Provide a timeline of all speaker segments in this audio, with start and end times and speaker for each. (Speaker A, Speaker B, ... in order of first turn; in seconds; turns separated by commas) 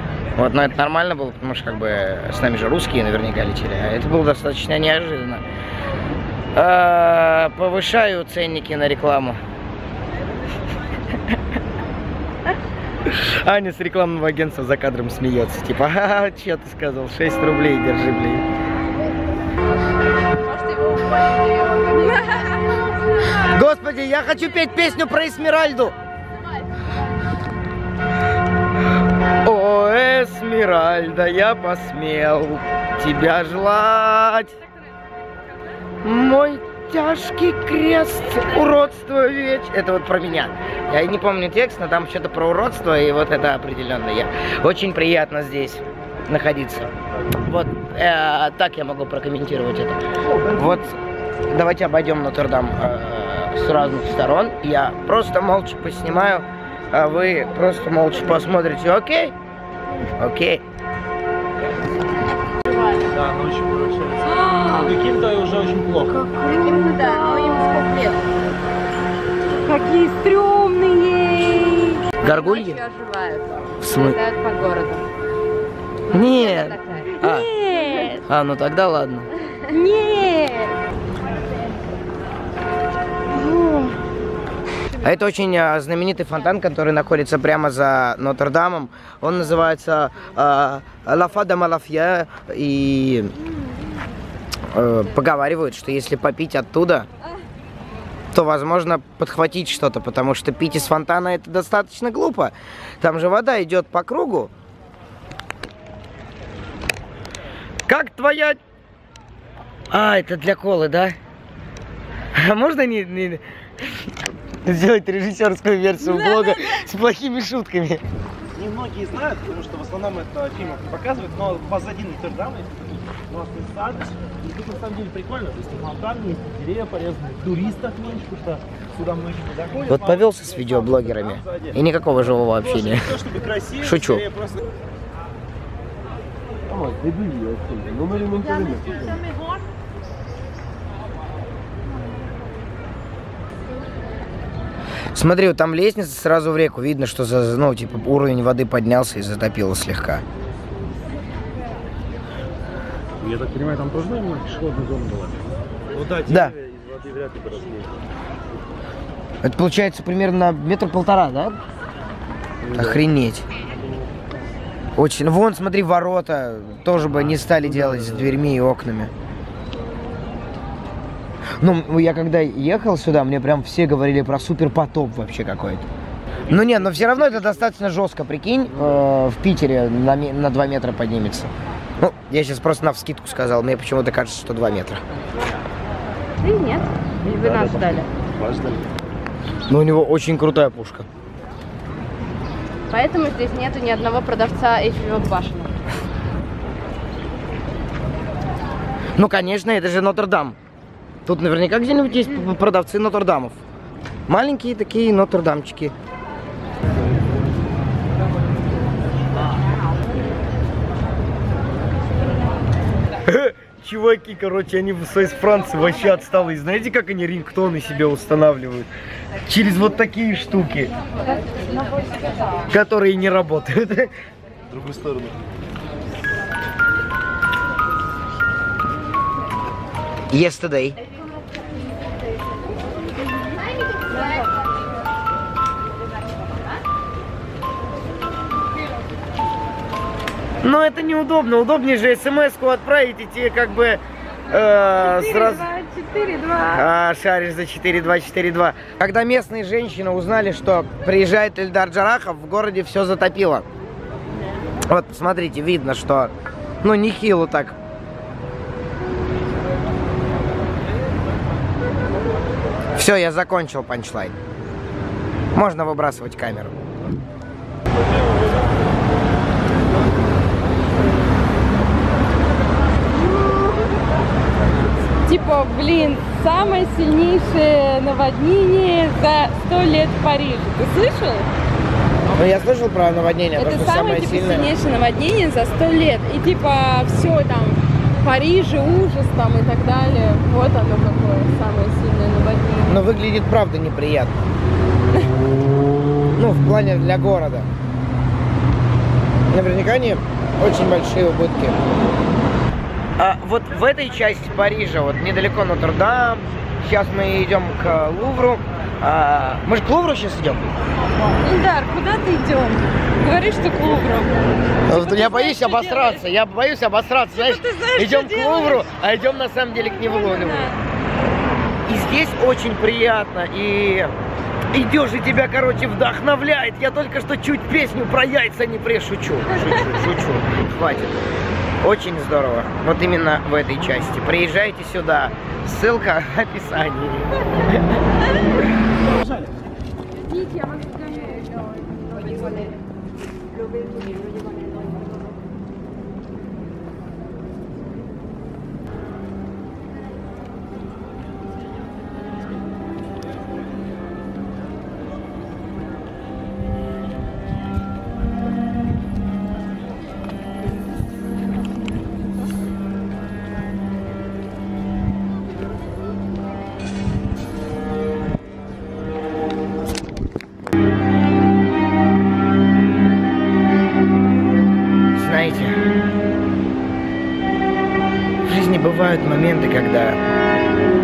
Speaker A: 0.4-5.4, Speaker A: 6.5-9.4, Speaker A: 13.1-18.5, Speaker B: 20.4-23.5, Speaker C: 21.9-23.5, Speaker A: 23.4-25.9, Speaker B: 26.6-26.9, Speaker A: 29.4-34.5, Speaker A: 36.0-46.9, Speaker A: 47.4-50.0, Speaker D: 50.2-50.9, Speaker A: 50.5-51.0, Speaker A: 51.5-59.4, Speaker A: 60.2-60.6, Speaker D: 63.0-66.2, Speaker C: 64.3-64.9, Speaker B: 64.5-64.9, Speaker C: 66.2-67.9, Speaker B: 66.5-68.4, Speaker C: 69.7-72.0, Speaker A: 72.2-72.8, Speaker B: 72.2-75.0, Speaker A: 73.8-74.2, Speaker B: 76.1-77.2, Speaker A: 76.1-77.5, Speaker C: 77.1-78.2, Speaker B: 77.8-78.2, Speaker A: 78.3-79.3, Speaker C: 79.7-80.7, Speaker C: 83.3-84.0, Speaker A: 85.0-93.3, Speaker A: 94.7-97.1, Speaker A: 98.3-104.5, Speaker A: 107.9-108.6, Speaker A: 109.9-111.2, Speaker A: 112.3-113.4, Speaker A: 114.6-118.0, Speaker C: 116.0-116.8, Speaker D: 118.5-131.8, Speaker A: 129.9-133.1, Speaker D: 132.6-134.7, Speaker A: 133.8-134.2, Speaker E: 136.7-138.9, Speaker D: 137.5-139.0, Speaker A: 145.1-150.2, Speaker E: 153.2-155.5, Speaker D: 155.9-158.0, Speaker A: 156.3-156.5, Speaker A: 159.4-161.6, Speaker A: 162.7-163.4, Speaker A: 165.0-169.1, Speaker A: 171.6-175.9, Speaker A: 176.5-185.0, Speaker B: 186.4-188.1, Speaker E: 187.4-188.8, Speaker A: 189.7-191.1, Speaker B: 192.9-195.8, Speaker A: 199.2-200.6, Speaker A: 201.3-203.6, Speaker A: 204.3-205.9, Speaker A: 213.3-218.9, Speaker A: 219.5-220.9, Speaker B: 221.1-222.7, Speaker C: 221.2-222.7, Speaker A: 222.7-224.1, Speaker D: 224.7-225.4, Speaker A: 230.3-231.0, Speaker A: 240.6-245.7, Speaker C: 244.8-246.8, Speaker A: 246.7-253.7, Speaker A: 254.9-257.8, Speaker A: 262.9-264.4, Speaker A: 265.5-266.7, Speaker C: 275.3-281.5, Speaker A: 282.3-284.7, Speaker C: 283.6-293.0, Speaker A: 292.9-294.4, Speaker A: 296.4-297.7, Speaker A: 299.5-301.8, Speaker A: 303.2-310.7, Speaker C: 311.4-316.3, Speaker A: 314.9-320.7, Speaker C: 317.3-318.9, Speaker C: 319.7-320.8, Speaker A: 321.9-324.1, Speaker A: 324.7-331.3, Speaker D: 329.6-330.4, Speaker A: 331.8-337.8, Speaker D: 339.0-339.5, Speaker C: 340.3-342.7, Speaker A: 375.1-375.8, Speaker A: 378.4-380.2